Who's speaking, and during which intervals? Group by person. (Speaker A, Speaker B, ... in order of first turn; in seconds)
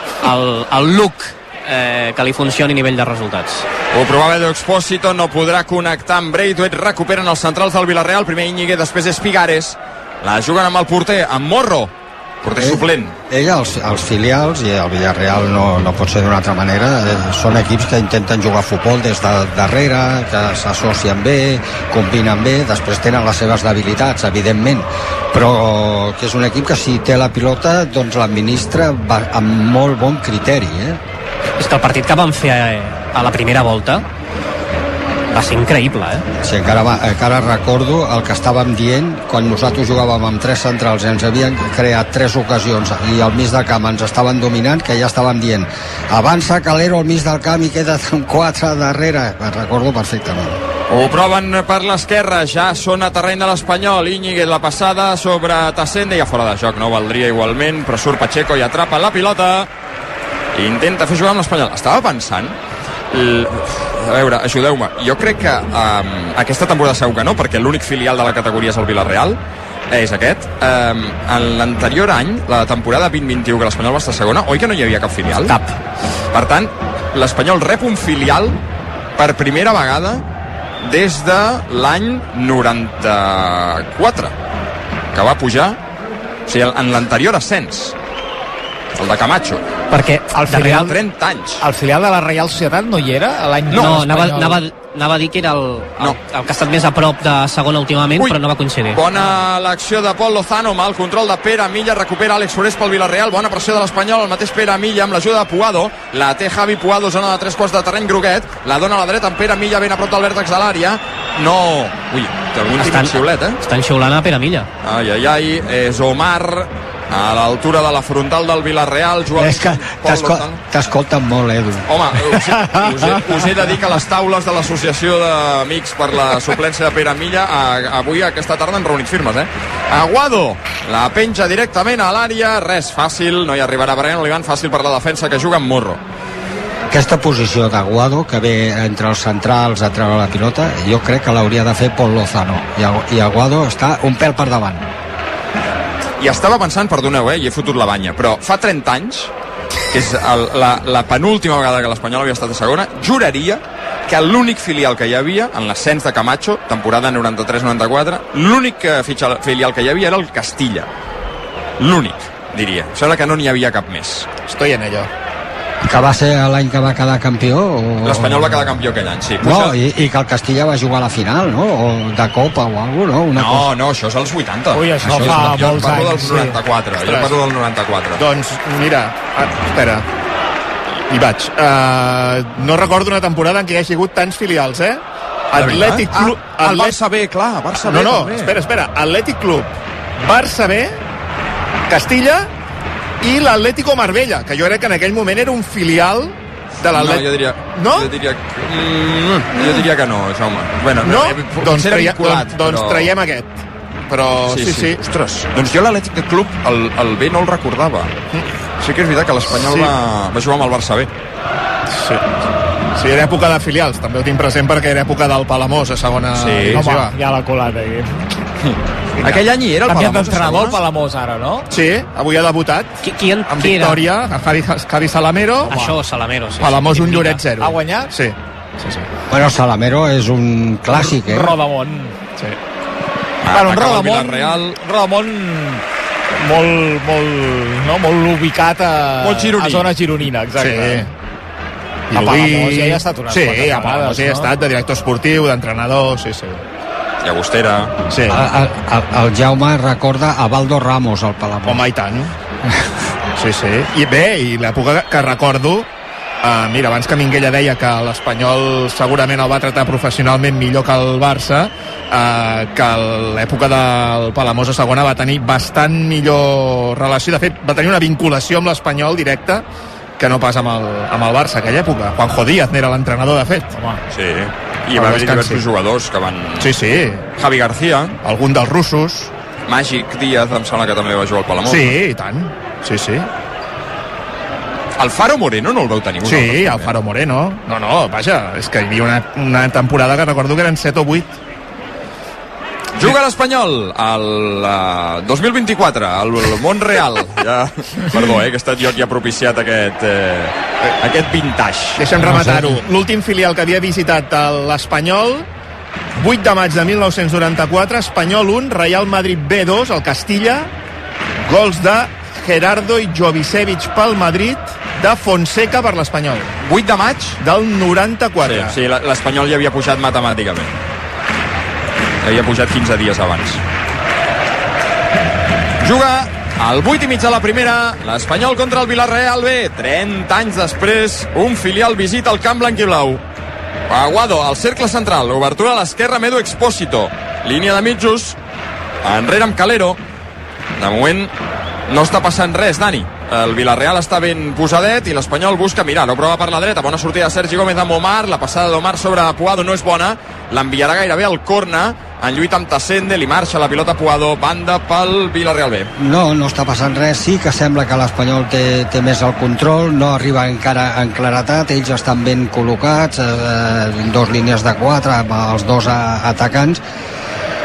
Speaker A: 0.2-3.6, 31.6-34.0, 35.3-36.2, 75.4-75.7, 93.7-99.0, 112.8-114.7, 223.0-224.0, 225.6-227.4
Speaker B: 3.9-11.9, 12.4-13.1, 50.9-59.7, 60.5-62.5, 63.1-69.4, 69.9-75.6, 76.3-78.6, 79.2-80.2, 80.8-84.3, 85.1-85.8, 86.5-87.9, 89.0-89.6, 90.5-91.6, 93.7-94.0, 98.9-113.6, 114.8-120.6, 121.9-136.0, 146.2-149.3, 149.9-160.9, 161.8-164.2, 168.0-169.7, 173.3-178.2, 185.6-188.6, 196.9-203.1, 204.4-208.1, 208.8-211.1, 216.3-216.8, 218.6-220.8, 233.4-234.8, 239.2-239.9, 247.2-247.9, 274.1-276.7, 277.3-278.1, 279.7-281.9, 285.0-286.9, 292.9-302.0, 316.6-317.4, 318.4-320.7, 322.2-323.6, 325.8-333.2, 333.9-338.4, 339.0-340.0, 340.8-341.3, 341.9-355.9
Speaker C: 12.6-31.0, 36.4-50.6, 119.3-123.1, 136.9-144.9, 165.8-168.7, 169.4-173.7, 229.3-231.5, 248.3-251.8, 302.2-302.8, 356.0-366.8
Speaker D: 89.9-90.9, 91.6-94.6, 174.7-176.6, 216.7-218.2, 219.9-221.7, 227.6-228.1, 230.9-232.1, 233.5-235.8, 236.3-241.1, 242.1-244.5
Speaker E: 164.4-165.1, 177.0-177.4, 178.2-180.1, 181.1-187.0, 187.8-191.0, 191.9-192.5, 193.2-198.1, 199.6-199.8, 201.0-203.5, 204.1-205.0, 209.5-209.9, 211.9-212.2, 212.9-217.1, 219.2-219.4, 221.7-222.9, 223.5-225.8, 226.6-228.3, 240.6-241.1, 242.1-246.6, 248.1-248.4, 251.6-252.3, 253.3-255.9, 256.4-269.6, 270.2-274.0, 274.9-275.6, 276.6-277.2, 278.2-279.3, 281.6-283.3, 286.2-291.2, 302.0-305.4, 306.2-310.7, 311.4-316.5, 317.4-318.8